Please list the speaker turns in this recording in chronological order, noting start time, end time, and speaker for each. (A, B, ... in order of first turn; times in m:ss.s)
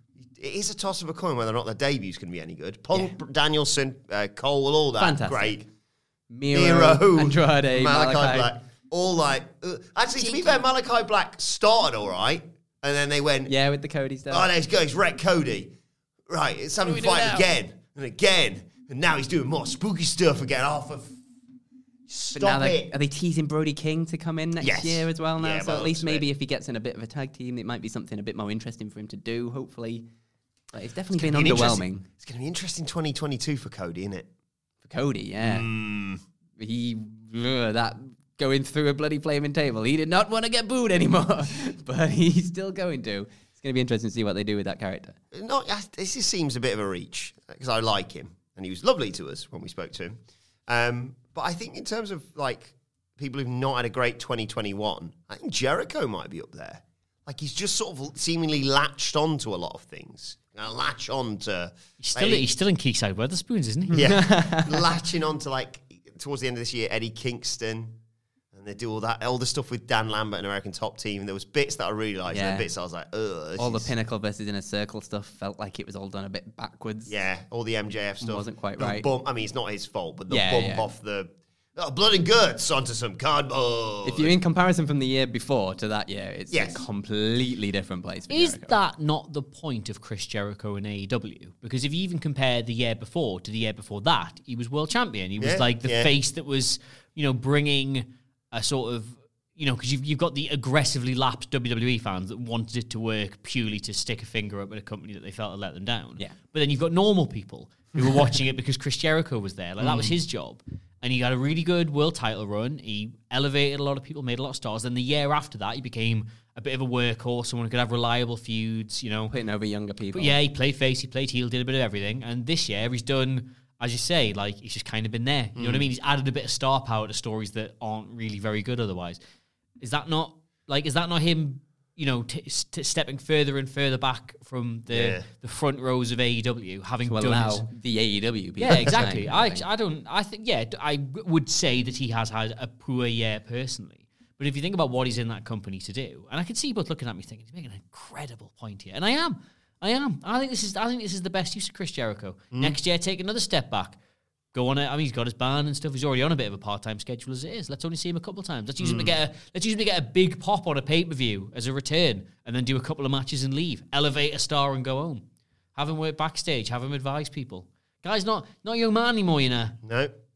0:00.3-0:05.6 A
0:05.0-0:05.6 B
0:06.3-0:08.5 B
0:06.5-0:13.5 A
0:10.2-0:10.6 B
0:13.5-0:14.5 B
0:14.3-0:15.7 A
0:16.3-0:21.2 A
0:16.8-0:17.5 B
0:22.1-0:22.9 A
0:22.3-0:30.0 B
0:24.6-0:26.2 A
0:30.7-0:32.0 B
0:31.2-0:34.3 A
0:34.8-0:35.7 B
0:35.4-0:36.2 A
0:36.6-0:45.2 B
0:45.3-1:02.5 A
1:02.0-1:04.0 C
1:03.9-1:04.8 B
1:03.9-1:08.0 A
1:08.5-1:13.9 A
1:12.3-1:12.7 B
1:13.6-1:17.2 B
1:17.1-1:24.4 A
1:18.2-1:19.1 B
1:20.3-1:20.9 B
1:24.0-1:28.8 B
1:26.5-1:26.8 A
1:28.3-1:59.3 C
1:35.4-1:36.1 A
1:49.8-1:50.1 A
1:59.3-2:00.4 B
2:00.1-2:09.2 C
2:05.6-2:05.9 A
2:09.8-2:17.7 C
2:14.9-2:15.2 A
2:17.0-2:19.6 B
2:18.6-2:34.0 C
2:18.7-2:19.0 A
2:32.5-2:32.8 A
2:34.5-2:49.8 C
2:38.8-2:39.1 A
2:49.8-2:50.1 A